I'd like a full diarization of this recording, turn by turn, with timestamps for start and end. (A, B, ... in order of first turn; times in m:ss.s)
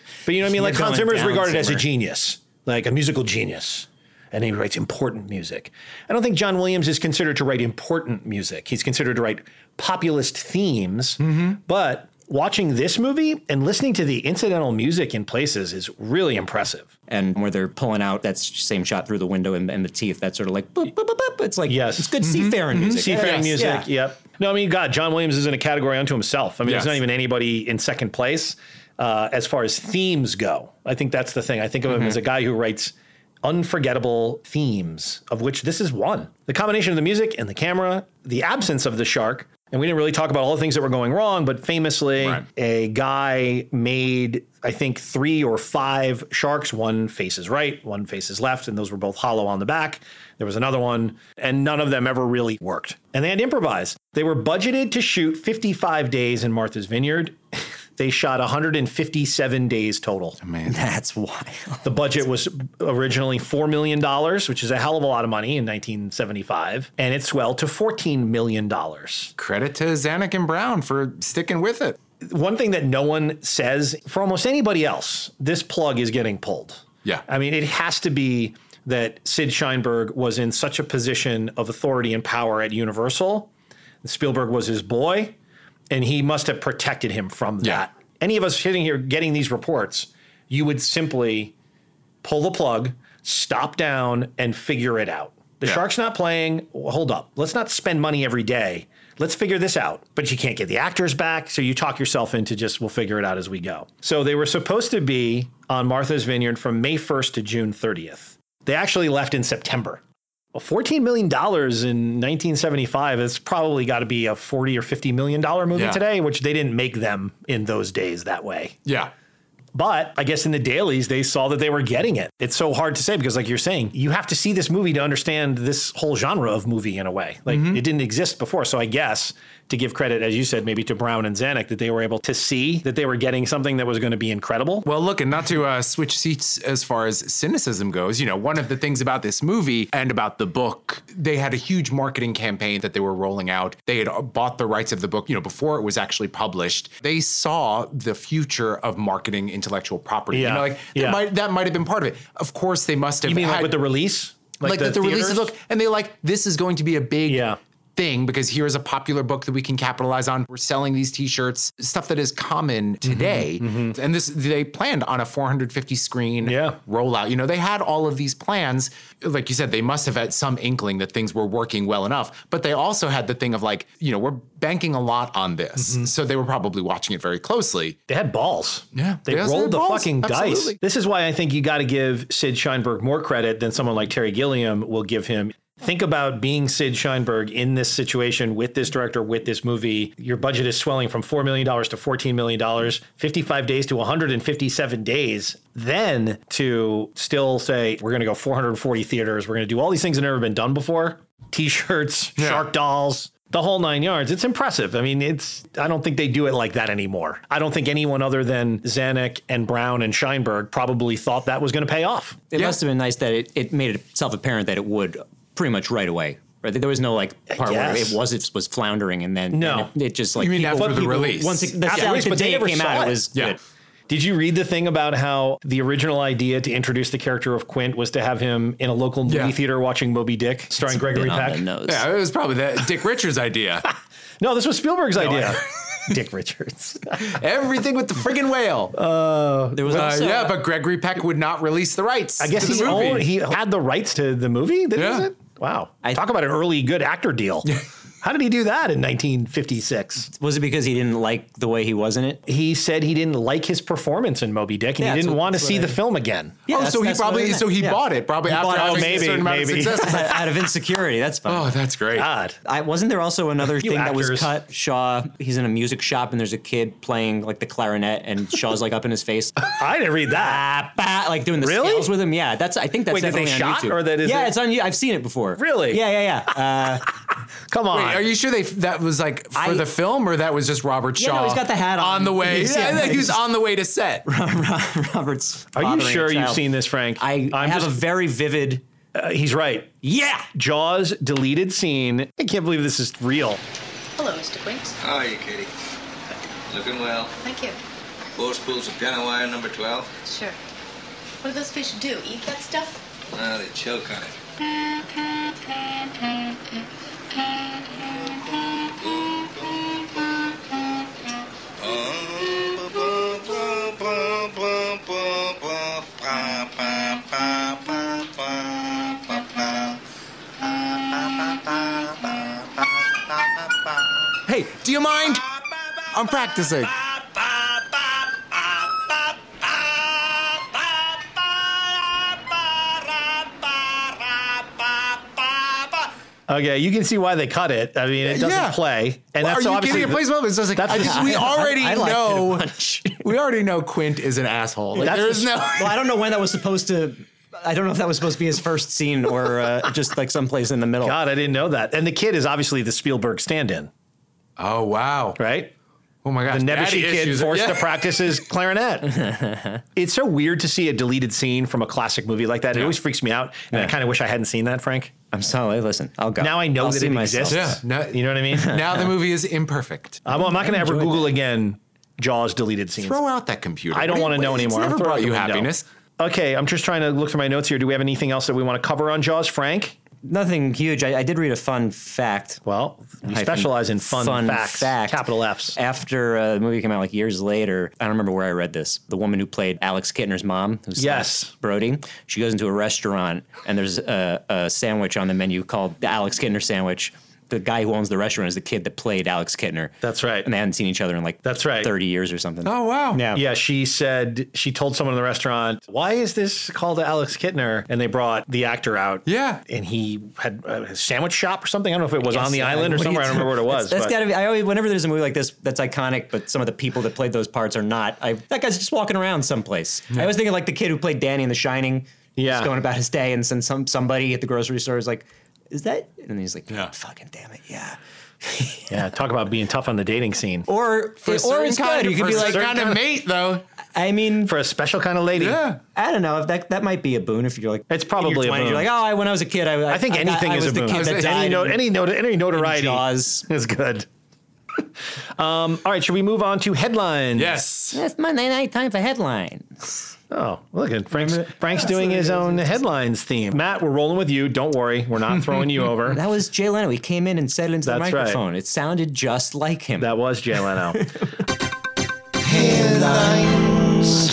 0:00.2-0:16.9 A
0:00.4-0:01.8 B
0:11.2-0:11.5 C
0:17.1-0:23.9 B
0:21.7-0:22.2 A
0:22.2-0:23.6 C
0:22.8-1:00.4 A
0:26.6-0:27.0 C
0:42.2-0:42.4 C
1:00.4-1:00.8 C
1:00.7-1:01.9 B
1:01.8-1:09.3 A
1:09.4-1:12.0 C
1:12.2-1:23.5 A
1:24.0-1:25.3 A
1:25.9-1:31.5 A
1:32.2-1:50.0 A
1:50.5-1:58.8 A
1:55.7-1:56.0 C
1:58.8-1:59.1 C
1:59.7-2:14.9 A
2:07.5-2:07.8 C
2:14.8-2:33.8 C
2:30.3-2:31.2 A
2:33.2-2:35.5 A
2:34.6-2:58.0 C
2:37.3-2:37.6 A
2:43.0-2:43.9 A
2:46.4-2:46.8 A
2:55.8-2:56.1 A
2:58.1-3:32.4 A
2:58.9-3:00.8 C
3:22.4-3:22.6 C
3:32.5-3:43.6 B
3:37.5-3:38.2 A
3:39.5-3:39.9 A
3:40.4-3:42.2 C
3:41.0-3:41.2 A
3:41.8-3:43.2 A
3:44.1-3:51.6 A
3:49.3-3:49.6 C
3:50.8-3:52.1 B
3:51.9-3:53.8 C
3:54.4-3:57.3 A
3:55.2-3:55.6 C
3:57.2-3:59.0 C
3:58.9-4:00.1 A
3:59.7-4:00.6 B
3:59.9-4:03.3 C
4:02.4-4:07.7 A
4:05.0-4:05.3 C
4:08.2-4:10.3 A
4:10.3-4:12.4 B
4:12.5-4:16.6 A
4:15.0-4:16.0 B
4:16.6-4:21.8 B
4:16.7-4:20.5 C
4:18.7-4:20.4 A
4:21.5-4:22.3 C
4:22.1-4:22.6 A
4:22.6-4:29.7 B
4:23.6-4:24.5 A
4:29.7-4:30.6 A
4:30.3-4:37.0 B
4:31.6-4:32.1 A
4:33.1-4:34.6 A
4:35.6-4:36.0 A
4:37.7-4:38.2 A
4:37.9-4:44.2 C
4:39.5-4:39.9 B
4:41.2-4:43.4 B
4:42.6-4:42.9 A
4:44.2-4:48.8 B
4:45.7-4:48.0 A
4:49.1-4:53.6 A
4:50.0-4:50.4 B
4:54.2-4:55.0 D
4:55.0-4:55.7 E
4:56.7-4:57.4 E
4:57.4-4:57.8 D
4:58.4-5:00.1 E
5:00.2-5:00.6 D
5:01.4-5:03.0 D
5:03.3-5:04.3 E
5:08.8-5:10.3 E
5:11.8-5:19.9 E
5:20.6-5:22.7 E
5:24.4-5:25.4 C
5:26.1-5:26.9 C
5:36.5-5:41.3 A
5:38.2-5:38.8 C
5:39.4-5:45.9 C
5:40.8-5:43.3 B
5:44.9-5:51.2 B
5:45.0-5:45.5 A
5:51.0-5:53.9 A
5:54.6-5:55.4 C
5:55.4-5:55.7 A
5:56.2-5:58.0 C
5:56.5-5:59.2 A
5:59.2-5:59.8 B
5:59.9-6:05.1 A
6:05.3-6:07.8 B
6:06.4-6:08.8 A
6:07.5-6:10.2 C
6:10.2-6:13.2 A
6:10.4-6:11.3 B
6:13.0-6:15.8 C
6:13.9-6:20.0 A
6:20.2-6:22.6 B
6:22.6-6:25.8 A
6:23.2-6:43.4 B
6:31.0-6:31.5 A
6:40.0-6:40.5 A
6:41.4-6:41.9 A
6:42.6-6:43.2 C
6:43.3-6:54.2 A
6:49.2-6:49.6 C
6:52.2-7:09.0 B
7:02.4-7:02.7 A
7:08.9-7:10.7 A
7:10.7-7:12.7 B
7:11.2-7:13.6 C
7:12.2-7:13.0 A
7:13.9-7:14.5 B
7:14.4-7:15.6 A
7:15.4-7:15.8 C
7:15.9-7:21.8 B
7:17.9-7:18.9 A
7:19.9-7:24.1 A
7:20.9-7:21.7 C
7:22.5-7:23.4 B
7:25.4-7:27.6 A
7:27.4-7:28.0 C
7:27.9-7:30.0 B
7:30.3-7:36.2 A
7:31.1-7:32.7 B
7:36.0-7:41.2 B
7:37.8-7:38.4 A
7:40.0-7:41.0 A
7:42.5-7:43.7 A